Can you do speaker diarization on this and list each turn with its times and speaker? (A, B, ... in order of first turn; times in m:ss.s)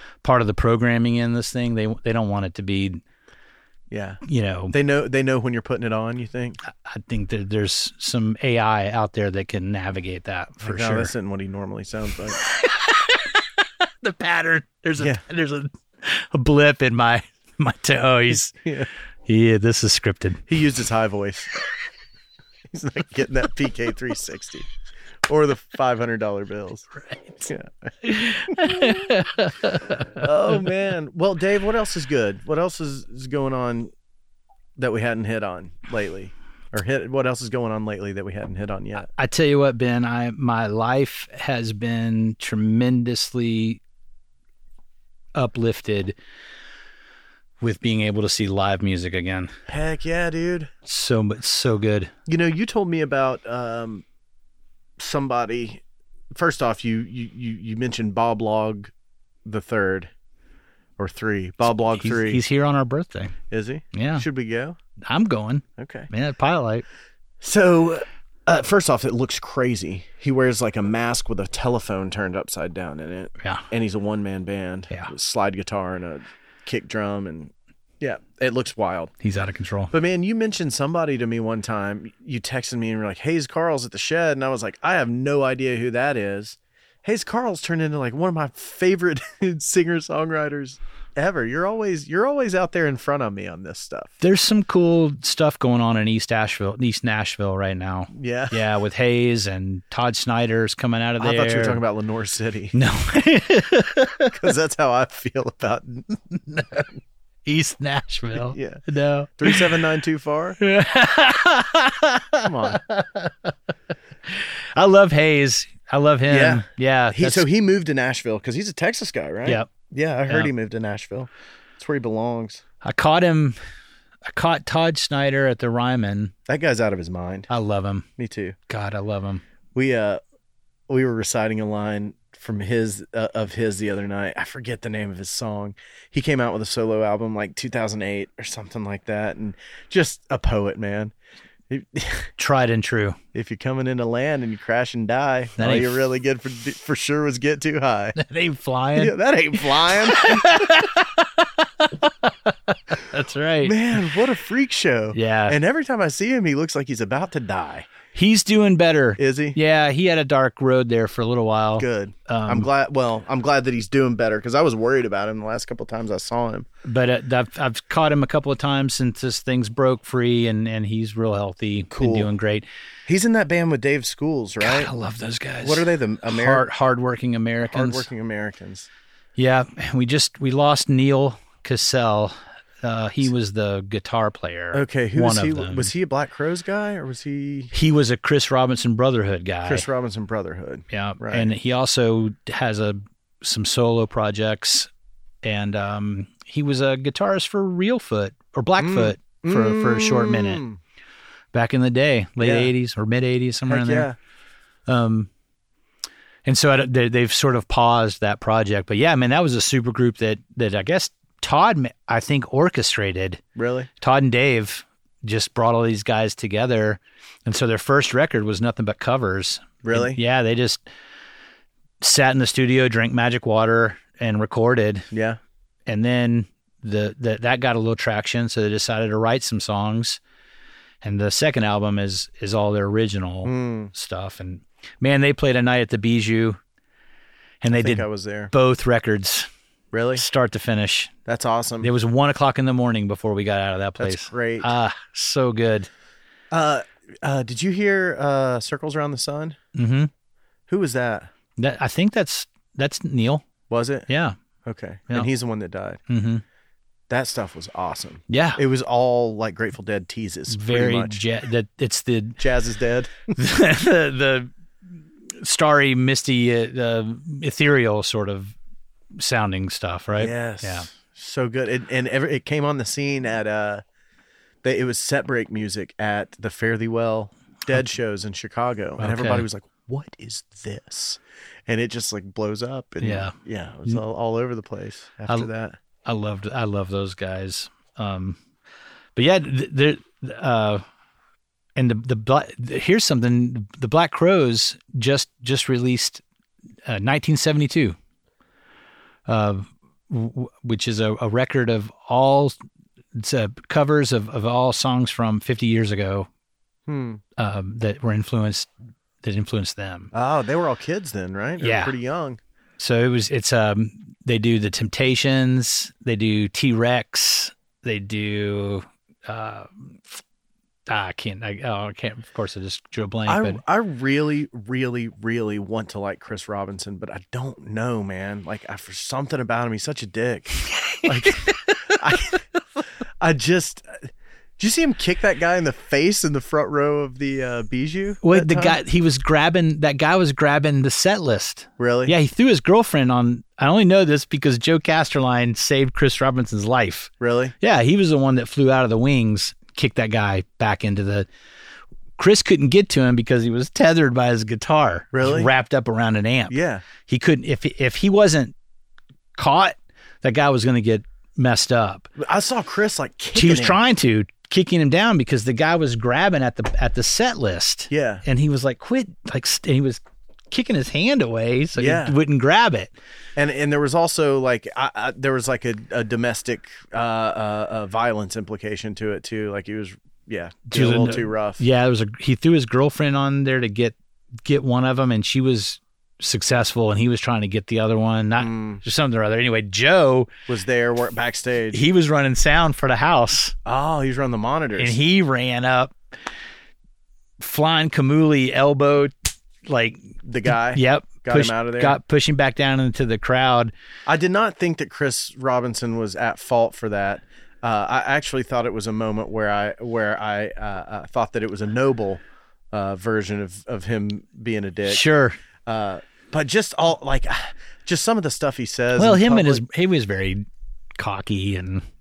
0:00.2-0:03.0 A
0:03.9-0:04.2 B
0:04.2-0:04.8 A
0:04.7-0:06.6 B
0:06.6-0:11.1 A
0:10.6-0:12.4 B
0:12.4-0:18.5 A
0:18.5-0:18.9 B
0:19.2-0:20.4 A
0:20.5-0:21.6 B
0:22.7-0:24.7 B
0:25.3-0:26.9 B
0:27.0-0:27.5 A
0:27.5-0:27.9 B
0:28.0-0:30.3 A
0:28.5-0:28.9 B
0:30.2-0:33.9 B
0:34.8-0:39.1 B
0:39.0-0:43.8 A
0:45.3-0:46.1 A
0:47.6-0:49.5 A
0:49.7-0:50.7 B
0:50.8-0:52.1 A
0:52.3-0:54.0 B
0:55.0-0:55.8 B
0:56.3-0:58.9 B
0:59.4-1:00.1 B
1:01.0-1:02.4 B
1:01.9-1:03.3 A
1:03.5-1:04.8 B
1:03.9-1:04.2 A
1:05.0-1:06.8 A
1:05.8-1:06.1 B
1:07.4-1:19.1 B
1:13.4-1:13.7 A
1:19.2-1:19.9 A
1:19.9-1:34.1 B
1:34.2-1:41.8 A
1:38.1-1:38.6 B
1:41.2-1:42.8 B
1:42.7-1:44.3 A
1:44.3-1:46.4 B
1:46.5-1:46.8 A
1:47.4-1:49.7 A
1:48.3-1:48.8 B
1:49.4-1:50.6 B
1:50.6-1:53.5 A
1:52.4-1:52.8 B
1:54.3-1:57.4 A
1:56.3-2:02.6 B
2:02.8-2:03.6 A
2:04.3-2:06.3 A
2:06.5-2:07.5 B
2:07.5-2:08.1 A
2:08.2-2:08.6 B
2:08.7-2:09.4 A
2:09.7-2:10.2 B
2:10.9-2:21.1 B
2:21.7-2:22.3 B
2:22.4-2:23.2 A
2:23.3-2:28.2 B
2:25.6-2:26.0 A
2:28.2-2:29.1 A
2:29.0-2:30.8 B
2:29.9-2:33.8 A
2:33.6-2:37.9 B
2:35.1-2:35.6 A
2:38.1-2:42.7 A
2:39.2-2:39.6 B
2:41.8-2:46.7 B
2:46.8-2:52.6 A
2:51.9-2:52.3 B
2:53.1-2:54.9 B
2:54.6-2:58.1 A
2:55.6-2:56.6 B
2:57.7-2:58.9 B
2:59.4-3:05.9 A
3:04.7-3:07.7 B
3:07.7-3:09.9 A
3:09.6-3:11.5 B
3:10.9-3:14.9 A
3:15.4-3:20.6 A
3:18.8-3:20.8 B
3:21.5-3:24.1 A
3:22.4-3:22.7 B
3:23.7-3:24.2 B
3:24.9-3:25.3 A
3:26.4-3:33.4 A
3:33.6-3:33.9 B
3:34.0-3:40.8 A
3:39.8-3:40.2 B
3:42.0-3:45.1 A
3:45.1-3:45.4 B
3:45.9-3:50.2 A
3:51.0-3:56.6 A
3:53.4-3:53.9 B
3:57.6-3:59.5 A
3:57.7-3:58.5 B
3:59.9-4:00.2 B
4:00.2-4:01.1 A
4:01.2-4:01.9 B
4:01.8-4:05.9 A
4:04.0-4:04.7 B
4:06.5-4:09.6 B
4:09.7-4:10.1 A
4:10.7-4:11.3 B
4:11.6-4:13.4 A
4:13.7-4:14.1 B
4:14.1-4:14.3 A
4:14.6-4:16.0 B
4:16.1-4:16.4 A
4:17.1-4:21.2 B
4:18.3-4:18.6 A
4:20.5-4:22.4 A
4:22.4-4:23.3 B
4:23.3-4:24.5 A
4:25.4-4:28.5 A
4:29.2-4:30.9 A
4:30.2-4:33.8 B
4:34.6-4:45.8 B
4:39.0-4:39.4 A
4:43.0-4:43.3 A
4:46.0-4:48.4 A
4:49.2-4:50.8 A
4:51.8-4:56.2 A
4:56.9-4:58.0 A
4:59.3-5:02.6 A
5:03.1-5:06.3 A
5:06.9-5:07.2 B
5:07.4-5:08.7 A
5:09.2-5:10.1 A
5:10.1-5:12.4 B
5:11.6-5:11.9 A
5:12.8-5:20.2 A
5:20.9-5:23.6 A
5:23.3-5:32.4 B
5:30.7-5:32.0 A
5:33.2-5:34.1 B
5:34.6-5:38.8 B
5:38.2-5:51.3 A
5:41.8-5:42.1 B
5:47.2-5:47.5 B
5:52.2-5:58.5 A
5:55.1-5:55.5 B
5:56.5-5:56.8 B
5:59.3-6:02.1 A
6:02.2-6:03.8 B
6:03.3-6:12.9 A
6:07.9-6:08.2 B
6:11.8-6:12.2 B
6:13.4-6:21.6 B
6:20.7-6:30.3 A
6:28.4-6:28.8 B
6:30.5-6:31.8 B
6:31.7-6:33.5 A
6:33.6-6:35.0 B
6:34.8-6:35.9 A
6:37.4-6:39.1 A
6:39.6-6:43.7 A
6:40.2-6:42.0 B
6:44.0-6:55.0 B
6:54.9-6:55.4 A
6:55.6-6:59.6 B
6:59.0-7:00.4 A
7:01.0-7:01.8 A